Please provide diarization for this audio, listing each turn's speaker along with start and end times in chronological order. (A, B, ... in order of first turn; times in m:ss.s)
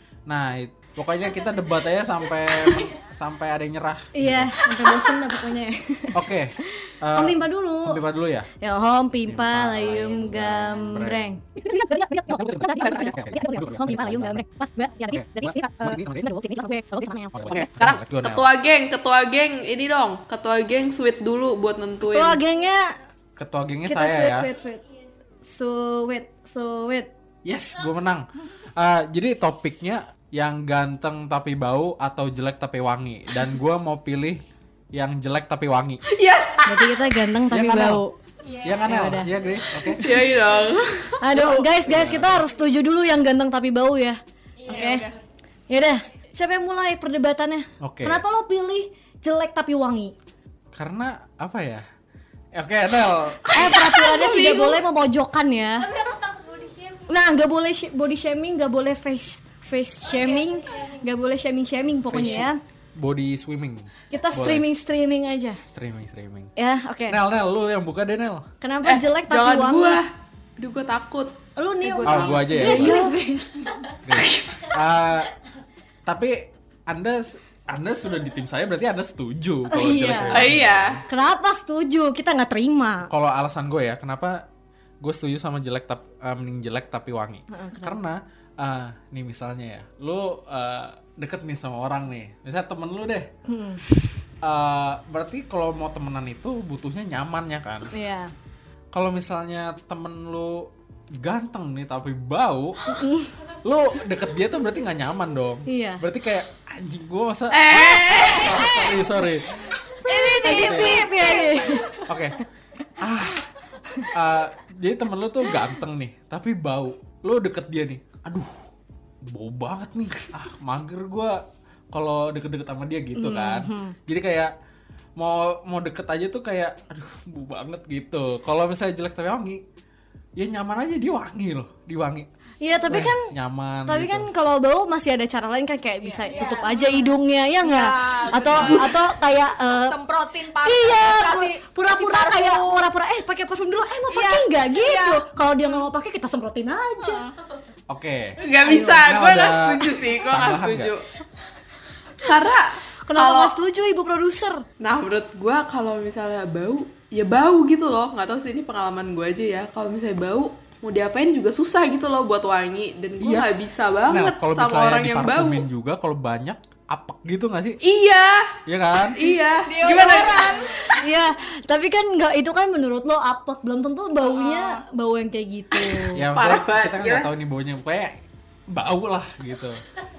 0:00.3-0:04.6 A
0:04.2-0:08.0 B
0:06.1-0:08.5 A
0:08.6-0:17.7 B
0:09.3-0:11.3 A
0:12.3-0:14.4 A
0:15.1-0:16.4 A
0:17.3-0:18.5 A
0:17.5-0:22.4 C
0:22.0-0:23.0 B
0:23.4-0:24.5 A
0:23.9-0:24.8 B
0:25.4-0:27.1 B
0:27.4-0:36.0 A
0:36.1-0:37.1 C
0:36.7-0:38.1 B
0:37.5-0:38.0 A
0:38.4-0:39.2 D
0:38.6-0:40.0 A
0:38.8-0:40.3 B
0:40.0-0:41.4 C
0:41.2-0:45.1 B
0:41.8-0:42.4 A
0:44.6-0:45.2 D
0:44.7-0:45.1 E
0:45.7-0:50.1 B
0:47.8-0:48.2 A
0:50.7-0:51.8 A
0:52.6-0:53.8 A
0:53.5-0:55.9 B
0:53.6-0:54.8 C
0:55.8-0:57.2 D
0:57.1-1:02.6 B
1:00.0-1:01.1 D
1:02.1-1:04.7 A
1:04.1-1:05.6 B
1:05.7-1:06.5 A
1:06.6-1:07.2 B
1:07.1-1:08.5 A
1:08.6-1:10.0 B
1:08.8-1:13.2 C
1:11.6-1:13.9 B
1:12.0-1:13.1 A
1:14.0-1:15.3 A
1:14.2-1:14.7 C
1:16.1-1:21.0 A
1:19.7-1:20.5 B
1:20.3-1:21.0 C
1:21.1-1:23.1 B
1:23.1-1:24.4 A
1:25.0-1:33.3 A
1:27.5-1:28.0 B
1:33.5-1:33.8 B
1:34.4-1:37.9 A
1:37.9-1:38.3 B
1:38.9-1:42.8 A
1:42.8-1:43.4 B
1:43.6-1:51.1 A
1:45.7-1:46.0 B
1:47.5-1:48.7 C
1:47.8-1:48.7 E
1:50.0-1:51.7 E
1:50.1-1:52.4 B
1:52.0-1:52.4 A
1:53.0-1:53.5 A
1:54.1-1:58.6 A
1:59.2-2:04.5 A
2:03.1-2:04.0 B
2:05.2-2:09.6 A
2:10.4-2:12.3 A
2:12.6-2:13.3 B
2:12.9-2:14.3 A
2:13.9-2:20.0 B
2:16.0-2:19.1 E
2:18.5-2:19.0 C
2:19.7-2:22.9 E
2:20.6-2:27.2 B
2:24.1-2:25.9 E
2:27.0-2:27.4 E
2:27.9-2:28.4 A
2:28.4-2:31.1 C
2:28.6-2:29.1 B
2:29.0-2:30.9 A
2:32.2-2:33.6 C
2:33.0-2:34.6 B
2:34.8-2:45.7 C
2:43.2-2:43.5 A
2:44.1-2:47.8 A
2:47.8-2:48.6 C
2:48.7-2:49.2 A
2:49.1-2:50.6 C
2:49.6-2:51.0 E
2:51.0-2:56.3 B
2:54.2-2:54.8 E
2:56.1-2:58.2 A
2:56.3-2:57.3 C
2:58.7-2:59.8 A